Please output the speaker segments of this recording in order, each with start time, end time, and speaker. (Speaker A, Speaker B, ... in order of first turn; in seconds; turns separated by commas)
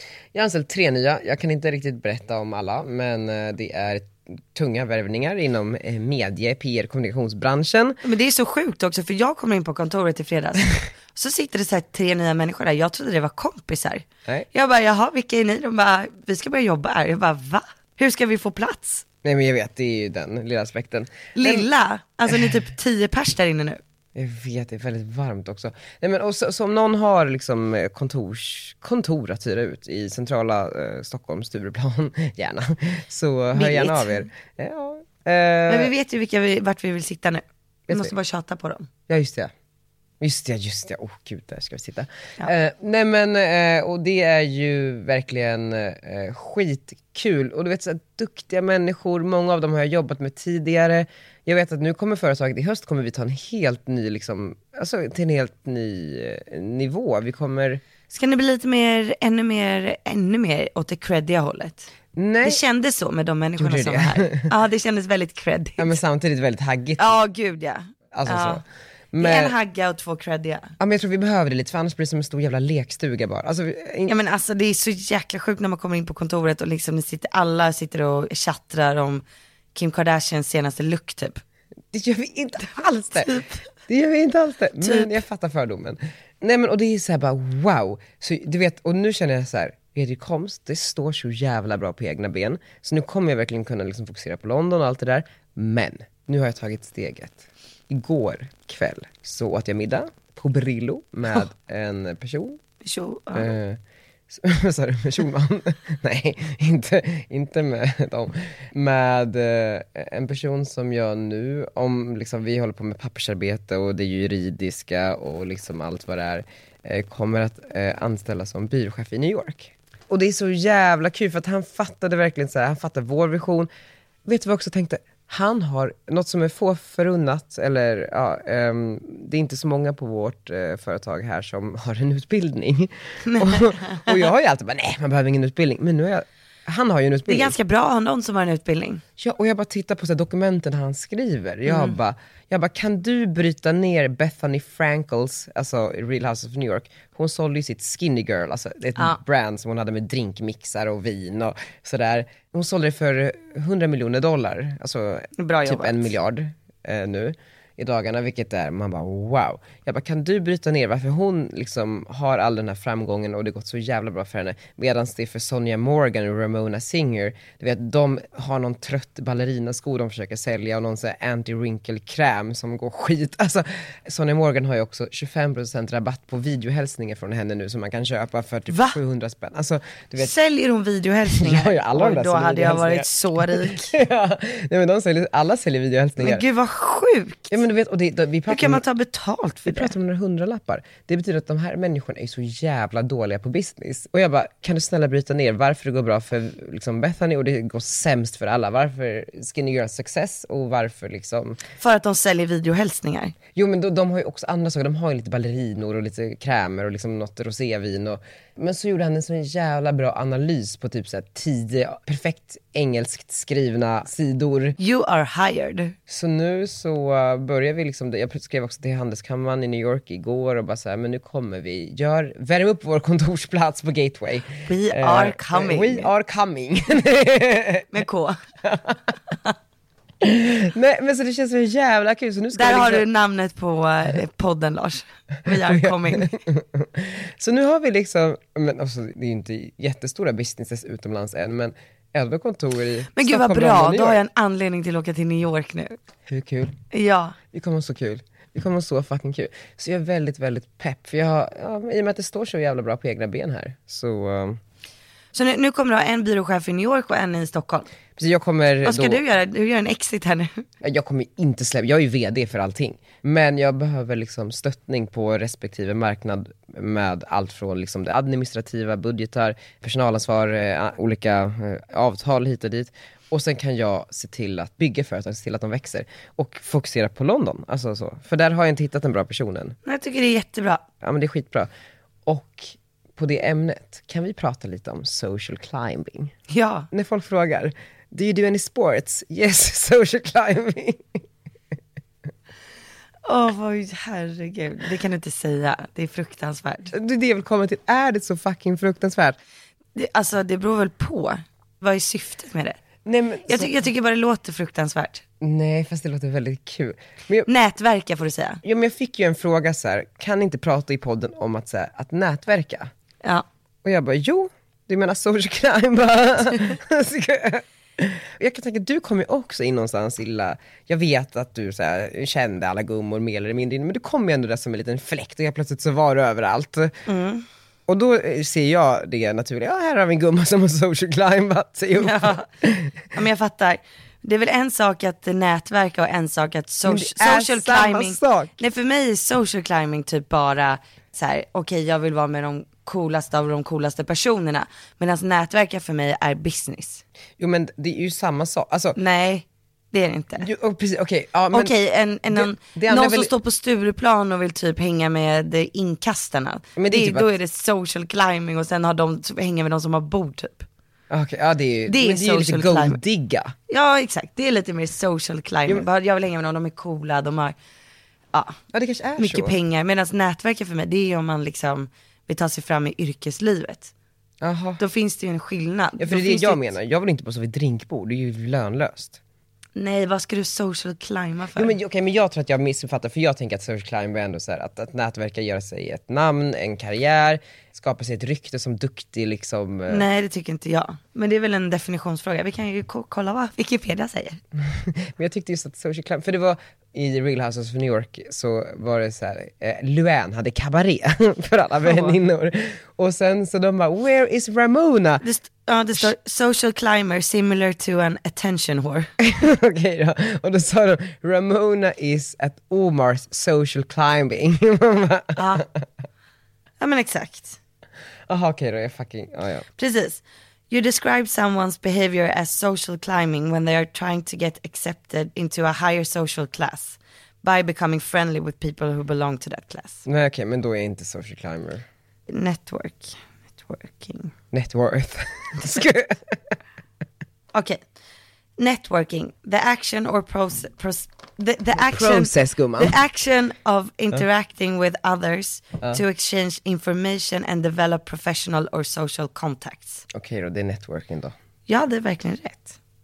Speaker A: 0.3-8.0, Speaker B: 8.0-19.0, Speaker A: 19.2-21.7, Speaker B: 21.4-23.8, Speaker A: 24.1-35.9, Speaker B: 33.5-34.3, Speaker B: 35.7-38.9, Speaker A: 39.1-39.5, Speaker A: 40.2-57.8, Speaker B: 58.1-61.9, Speaker A: 62.1-62.6, Speaker B: 62.4-66.0, Speaker A: 63.6-64.5, Speaker A: 65.8-67.2, Speaker B: 67.0-68.6, Speaker A: 68.1-69.5, Speaker B: 69.2-70.7, Speaker A: 70.8-74.2, Speaker B: 74.0-79.2, Speaker B: 79.7-81.4, Speaker A: 81.9-102.6, Speaker B: 83.2-83.6, Speaker B: 84.8-85.1, Speaker B: 102.8-103.5, Speaker A: 103.3-123.7, Speaker A: 124.2-137.5, Speaker B: 133.2-134.2, Speaker B: 137.3-139.0, Speaker A: 139.2-180.3, Speaker B: 141.7-141.9, Speaker B: 155.4-156.1, Speaker B: 178.7-179.0, Speaker B: 180.2-183.9, Speaker A: 181.3-186.4, Speaker B: 186.2-187.6, Speaker A: 187.5-188.8, Speaker B: 188.5-189.9, Speaker A: 189.7-201.6, Speaker B: 201.8-203.3, Speaker A: 203.5-214.8, Speaker B: 214.8-215.9, Speaker A: 216.1-227.9, Speaker B: 224.7-226.1, Speaker B: 227.9-228.4, Speaker A: 228.6-228.9, Speaker A: 230.2-233.1, Speaker B: 232.5-236.3, Speaker A: 235.5-244.2, Speaker B: 243.1-246.0, Speaker A: 246.3-246.8, Speaker B: 246.9-247.3, Speaker A: 247.5-254.6, Speaker B: 255.3-257.9, Speaker A: 258.1-259.2, Speaker B: 258.8-260.6, Speaker A: 260.8-279.7, Speaker B: 279.8-280.8, Speaker A: 281.0-281.7, Speaker A: 282.2-286.3, Speaker B: 286.5-286.9, Speaker A: 286.9-291.2, Speaker B: 293.2-296.9, Speaker A: 296.9-299.4, Speaker B: 299.9-302.8, Speaker A: 303.0-303.7, Speaker B: 303.5-305.2, Speaker A: 305.4-307.5, Speaker B: 307.5-308.6, Speaker A: 308.6-312.9, Speaker A: 313.8-327.0, Speaker B: 327.1-327.4, Speaker A: 327.9-332.9, Speaker B: 332.0-332.4, Speaker B: 333.1-347.0, Speaker A: 336.9-338.5, Speaker A: 347.4-349.0, Speaker B: 348.9-350.5, Speaker A: 350.4-351.7, Speaker B: 351.5-360.7, Speaker A: 352.3-353.3, Speaker A: 356.8-357.3, Speaker A: 361.1-363.5, Speaker B: 361.9-363.0, Speaker B: 363.7-367.6, Speaker B: 368.3-368.6, Speaker A: 368.7-369.5, Speaker B: 369.2-373.9, Speaker A: 374.4-374.8, Speaker B: 374.8-376.7, Speaker A: 376.0-379.2, Speaker B: 379.8-381.7, Speaker A: 381.6-390.1, Speaker B: 389.9-394.4, Speaker A: 394.6-405.2, Speaker B: 401.8-402.1, Speaker B: 405.2-409.1, Speaker A: 409.2-415.8, Speaker B: 415.4-415.6, Speaker B: 416.8-417.6, Speaker A: 418.3-419.6, Speaker B: 419.8-430.0, Speaker A: 430.1-431.8, Speaker B: 432.3-434.3, Speaker A: 434.5-436.5, Speaker B: 437.5-437.8, Speaker B: 438.6-450.0, Speaker A: 441.8-443.0, Speaker A: 450.1-451.3, Speaker B: 451.7-452.8